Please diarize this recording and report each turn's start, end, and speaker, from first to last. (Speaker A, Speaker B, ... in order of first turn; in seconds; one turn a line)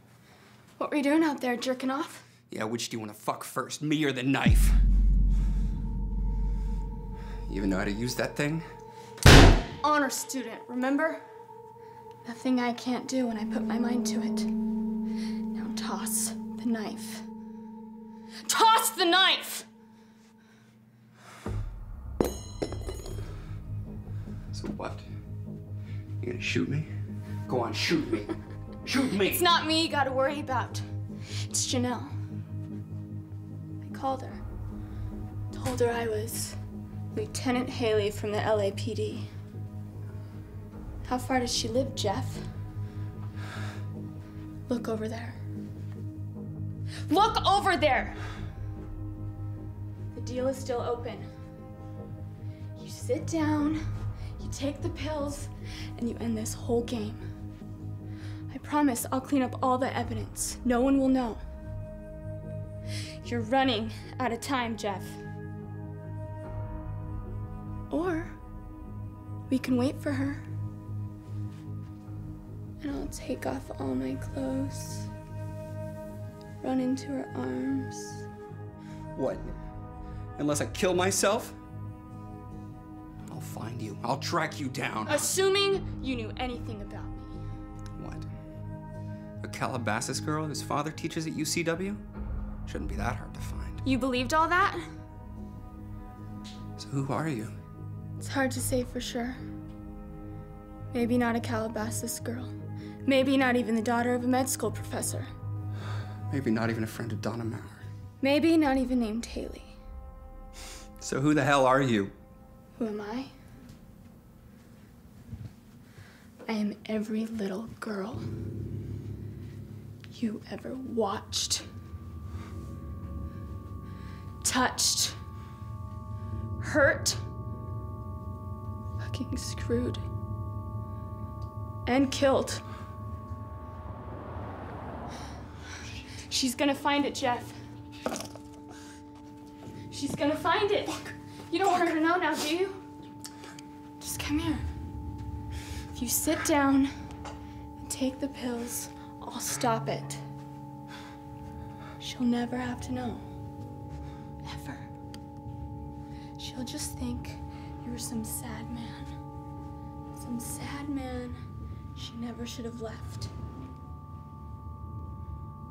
Speaker A: 0.8-2.3
Speaker B: 2.5-4.8
Speaker B: 7.5-8.7
Speaker A: 9.8-11.2
Speaker A: 12.2-14.5
Speaker A: 15.5-17.3
Speaker A: 18.4-19.7
Speaker B: 24.5-25.1
Speaker B: 26.2-26.9
Speaker B: 27.5-29.5
Speaker A: 29.2-30.9
Speaker A: 31.5-32.1
Speaker A: 33.8-34.4
Speaker A: 35.5-36.6
Speaker A: 37.1-39.3
Speaker A: 41.1-42.5
Speaker A: 44.7-45.4
Speaker A: 47.1-48.2
Speaker A: 50.1-51.3
Speaker A: 52.8-53.8
Speaker A: 54.4-57.2
Speaker A: 58.5-61.4
Speaker A: 63.2-65.2
Speaker A: 67.9-68.3
Speaker A: 69.5-70.4
Speaker A: 72.8-75.1
Speaker A: 76.6-78.2
Speaker B: 79.2-79.5
Speaker B: 80.4-81.6
Speaker B: 83.3-85.3
Speaker A: 85.1-87.4
Speaker B: 88.0-88.3
Speaker B: 89.4-92.0
Speaker B: 92.7-93.8
Speaker A: 93.8-94.9
Speaker B: 96.8-97.6
Speaker A: 98.2-99.4
Speaker A: 100.9-102.5
Speaker A: 103.0-105.3
Speaker B: 106.3-107.8
Speaker A: 108.2-109.8
Speaker B: 111.0-112.1
Speaker A: 112.8-113.3
Speaker A: 116.5-118.2
Speaker A: 120.1-121.7
Speaker A: 124.4-125.2
Speaker A: 126.6-127.2
Speaker A: 129.0-130.0
Speaker A: 131.9-132.6
Speaker A: 136.1-137.6
Speaker A: 139.9-142.8
Speaker A: 144.0-144.7
Speaker A: 145.9-146.9
Speaker A: 147.8-150.2
Speaker A: 152.0-153.3
Speaker A: 154.4-154.9
Speaker A: 156.4-159.1
Speaker A: 160.1-161.4
Speaker A: 162.0-163.3